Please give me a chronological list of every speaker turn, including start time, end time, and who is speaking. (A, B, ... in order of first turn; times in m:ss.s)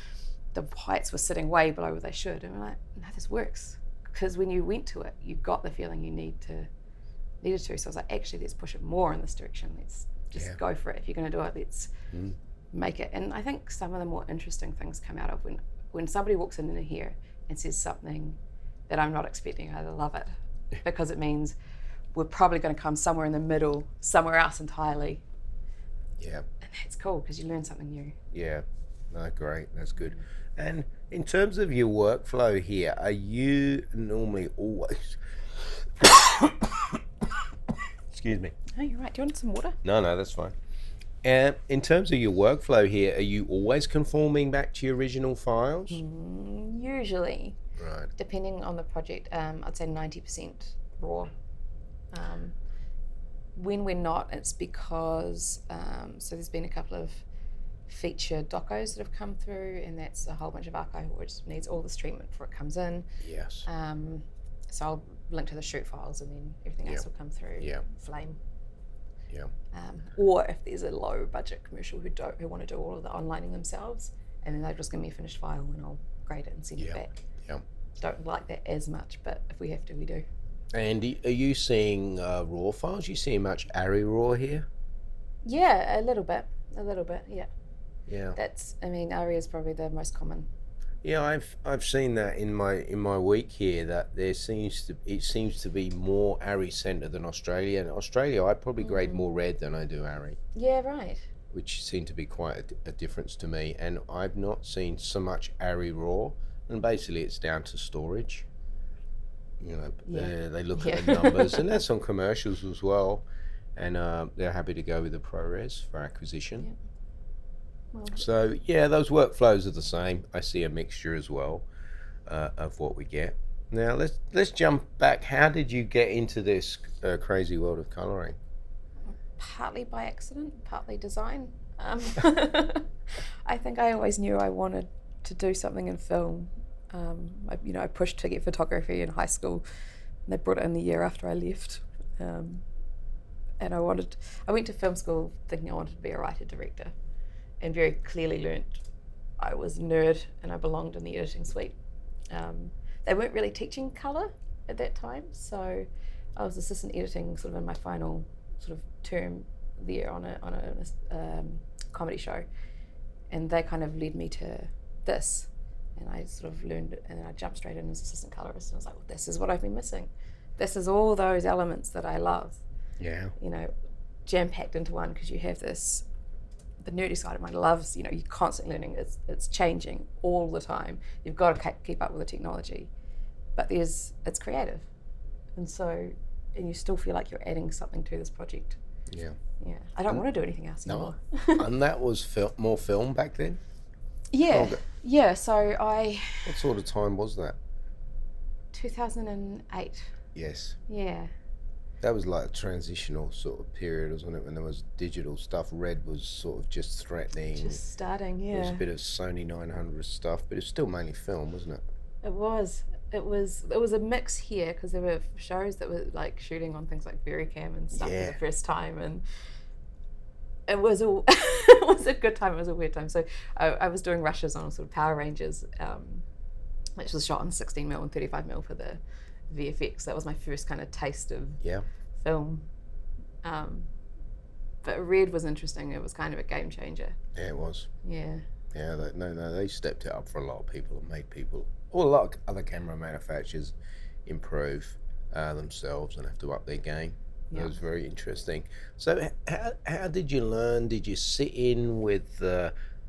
0:00.5-0:06.7 A
0:07.4-0:12.0 A
0:12.7-0:21.6 A
0:22.1-0:25.2 A
0:26.2-0:26.5 B
0:26.6-0:28.2 A
0:28.3-0:37.0 B
0:38.1-0:38.5 B
0:38.7-0:39.8 A
0:39.8-0:40.6 B
0:41.2-0:46.0 B
0:45.9-0:47.6 A
0:47.8-0:48.1 B
0:48.2-0:51.3 A
0:52.1-0:52.6 A
0:53.6-0:57.2 A
0:57.9-1:03.1 A
1:03.2-1:03.7 B
1:03.6-1:08.4 A
1:09.7-1:17.3 A
1:16.8-1:17.6 B
1:18.0-1:20.2 A
1:20.7-1:24.7 B
1:25.4-1:27.5 A
1:28.1-1:28.4 B
1:28.4-1:30.5 A
1:31.0-1:40.4 B
1:38.8-1:39.2 A
1:40.5-1:41.3 A
1:41.5-1:48.5 B
1:49.6-1:56.7 B
1:50.1-1:51.6 A
1:57.9-1:58.3 A
1:58.2-2:01.7 B
2:02.3-2:08.4 B
2:09.1-2:12.9 A
2:13.4-2:19.6 A
2:20.3-2:22.6 A
2:23.6-2:26.9 A
2:27.6-2:28.8 A
2:29.4-2:31.8 A
2:32.3-2:42.5 A
2:43.3-2:52.6 A
2:53.0-2:53.3 B
2:53.4-2:53.7 A
2:54.3-2:56.0 A
2:56.8-3:02.9 A
3:03.6-3:04.9 A
3:05.6-3:08.8 A
3:09.1-3:09.4 B
3:09.6-3:11.7 A
3:10.8-3:13.6 B
3:14.3-3:16.6 A
3:14.5-3:14.8 B
3:16.4-3:17.6 B
3:18.7-3:20.1 A
3:20.4-3:20.8 B
3:20.9-3:21.3 A
3:22.0-3:27.8 B
3:27.6-3:28.8 A
3:28.5-3:31.8 B
3:32.2-3:39.2 A
3:37.9-3:38.4 B
3:40.7-3:46.2 A
3:47.0-3:51.6 A
3:52.2-3:52.7 A
3:53.4-3:53.9 A
3:54.8-3:57.2 A
3:57.4-3:57.9 B
3:58.0-3:58.5 A
3:58.7-4:03.7 B
4:04.2-4:12.7 B